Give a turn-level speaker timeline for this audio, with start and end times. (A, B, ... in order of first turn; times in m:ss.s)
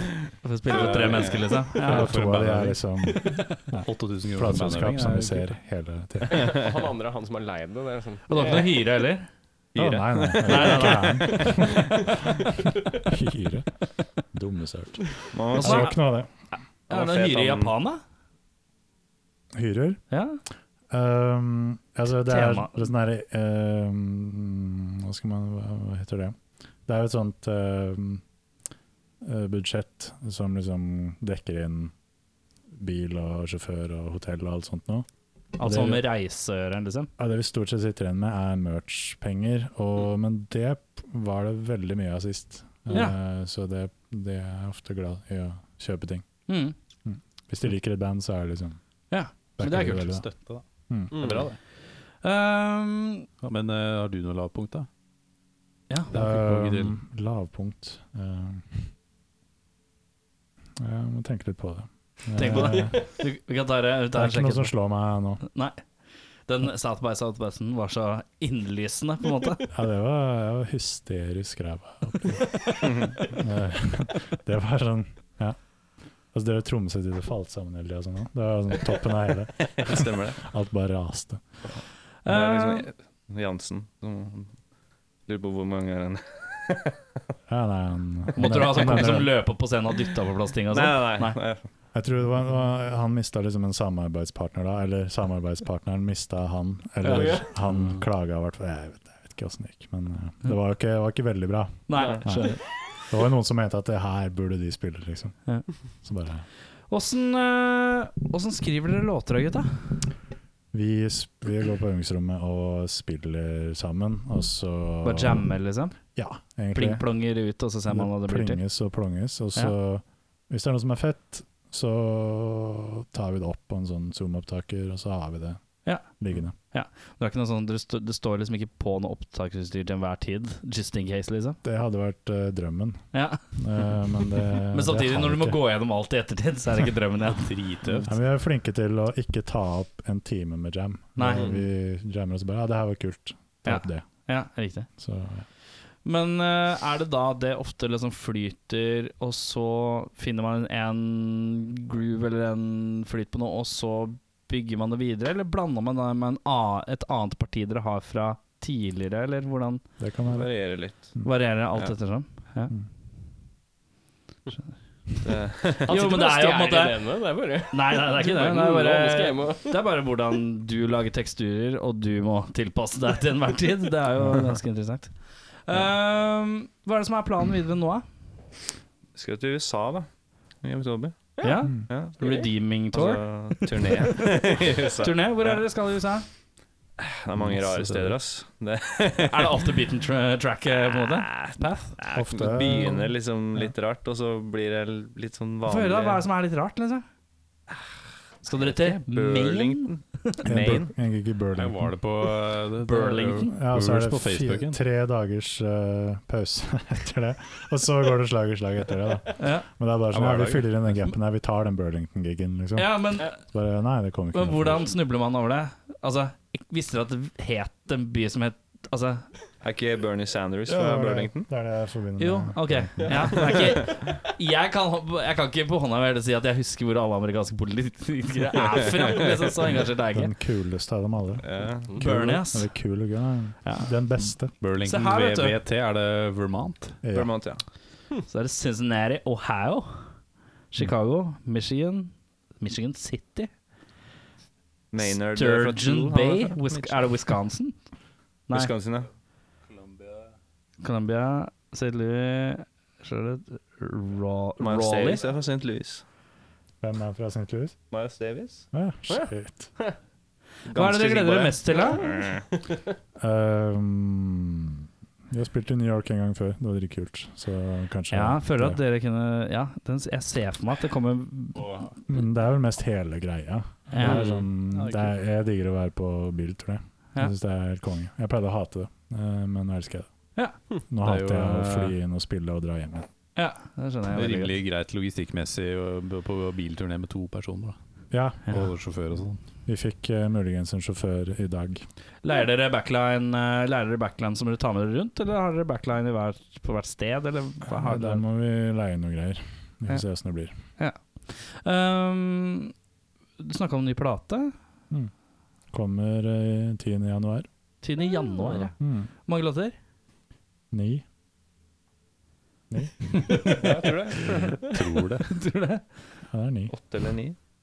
0:00.4-0:02.2 A
0:00.7-0:01.4 B
0:00.8-0:01.0 C
0:01.8-0:06.6 D
0:01.8-0:02.9 E
0:03.8-0:05.6 E
0:06.3-0:08.7 C
0:08.3-0:09.3 A
0:09.7-0:11.0 B
0:09.8-0:16.3 D
0:10.4-0:11.6 A
0:11.4-0:11.8 C
0:15.3-0:16.0 B
0:15.6-0:16.0 A
0:16.9-0:17.7 B
0:16.9-0:18.0 A
0:19.5-0:20.0 D
0:20.1-0:20.4 A
0:20.9-0:28.2 D
0:22.2-0:22.9 A
0:29.2-0:31.9 D
0:32.8-0:35.1 D
0:35.6-0:37.1 A
0:35.6-0:36.0 D
0:37.2-0:46.2 D
0:42.9-0:43.2 A
0:46.5-0:46.7 A
0:47.0-0:48.8 D
0:49.1-0:50.1 A
0:49.6-0:50.3 D
0:49.7-0:51.3 E
0:50.9-0:51.4 D
0:51.1-0:51.5 C
0:51.2-0:51.6 A
0:52.2-0:53.3 A
0:53.4-0:54.9 E
0:55.9-0:56.1 A
0:56.1-0:57.0 E
0:56.1-0:58.9 D
1:00.8-1:03.1 D
1:02.4-1:04.8 A
1:04.1-1:05.4 D
1:05.4-1:05.8 A
1:06.5-1:09.6 A
1:09.7-1:15.6 D
1:12.7-1:13.2 B
1:16.3-1:21.4 D
1:19.7-1:20.4 B
1:22.2-1:22.9 A
1:22.3-1:24.5 B
1:25.2-1:27.0 B
1:27.5-1:29.3 D
1:28.3-1:31.4 A
1:28.4-1:29.0 B
1:30.7-1:31.6 B
1:31.9-1:45.4 D
1:37.0-1:37.5 C
1:37.7-1:38.0 E
1:41.9-1:42.8 A
1:42.0-1:42.2 C
1:46.0-1:46.4 D
1:46.9-1:49.8 A
1:50.7-1:55.5 D
1:55.0-1:56.0 A
1:56.1-1:57.0 D
1:56.7-1:58.6 A
1:57.9-2:06.5 D
2:05.8-2:11.6 A
2:11.6-2:15.6 D
2:13.1-2:13.4 A
2:14.7-2:17.6 A
2:17.4-2:18.1 E
2:18.0-2:24.0 D
2:21.2-2:21.6 A
2:23.6-2:24.9 A
2:25.0-2:25.4 D
2:26.0-2:39.8 A
2:40.0-2:40.5 D
2:40.2-2:41.1 B
2:41.2-2:42.7 A
2:45.2-2:46.0 B
2:45.8-2:49.8 C
2:45.9-2:47.0 A
2:47.7-2:58.0 A
2:59.1-3:00.1 B
3:00.6-3:02.2 B
3:01.4-3:06.3 A
3:02.9-3:05.6 B
3:07.0-3:09.6 B
3:07.4-3:08.2 E
3:09.2-3:11.9 A
3:11.1-3:16.3 B
3:12.1-3:13.1 D
3:15.6-3:17.0 A
3:18.4-3:20.7 A
3:18.6-3:20.9 B
3:20.4-3:22.0 D
3:21.5-3:24.8 E
3:22.8-3:23.5 A
3:23.5-3:34.9 D
3:29.4-3:29.7 A
3:30.1-3:30.7 E
3:32.8-3:33.4 A
3:34.3-3:39.3 A
3:39.6-3:41.5 B
3:40.7-3:43.4 D
3:42.2-3:50.3 A
3:43.3-3:43.8 B
3:50.1-3:54.5 D
3:51.4-3:52.0 B
3:52.0-3:52.7 A
3:53.6-3:53.9 A
3:54.6-3:57.0 E
3:54.8-3:55.6 A
3:57.0-3:57.4 D
3:57.1-3:57.6 B
3:58.3-4:00.0 A
4:00.7-4:03.5 A
4:04.9-4:07.2 B
4:05.0-4:07.7 A
4:08.5-4:09.1 B
4:10.8-4:15.2 A
4:14.6-4:16.0 B
4:16.8-4:17.8 D
4:17.9-4:18.7 B
4:18.7-4:19.8 D
4:19.1-4:20.0 C
4:20.7-4:22.0 A
4:20.7-4:22.4 B
4:23.2-4:28.8 D
4:28.1-4:31.6 A
4:31.6-4:31.9 E
4:32.1-4:40.1 D
4:33.9-4:34.3 A
4:34.0-4:35.2 E
4:40.9-4:43.1 D
4:41.0-4:42.0 E
4:43.4-4:44.6 A
4:44.1-4:47.8 E
4:48.1-4:48.5 D
4:48.5-4:49.4 E
4:49.6-4:51.8 D
4:52.2-4:58.2 A
4:57.7-5:00.5 D
5:00.8-5:02.7 A
5:03.4-5:04.5 A
5:05.7-5:07.5 D
5:07.8-5:08.7 A
5:08.8-5:09.1 D
5:09.2-5:09.7 A
5:10.7-5:11.0 D
5:12.7-5:13.3 D
5:13.4-5:14.6 B
5:14.2-5:15.4 E
5:15.3-5:15.8 A
5:16.3-5:16.7 D
5:16.7-5:17.4 B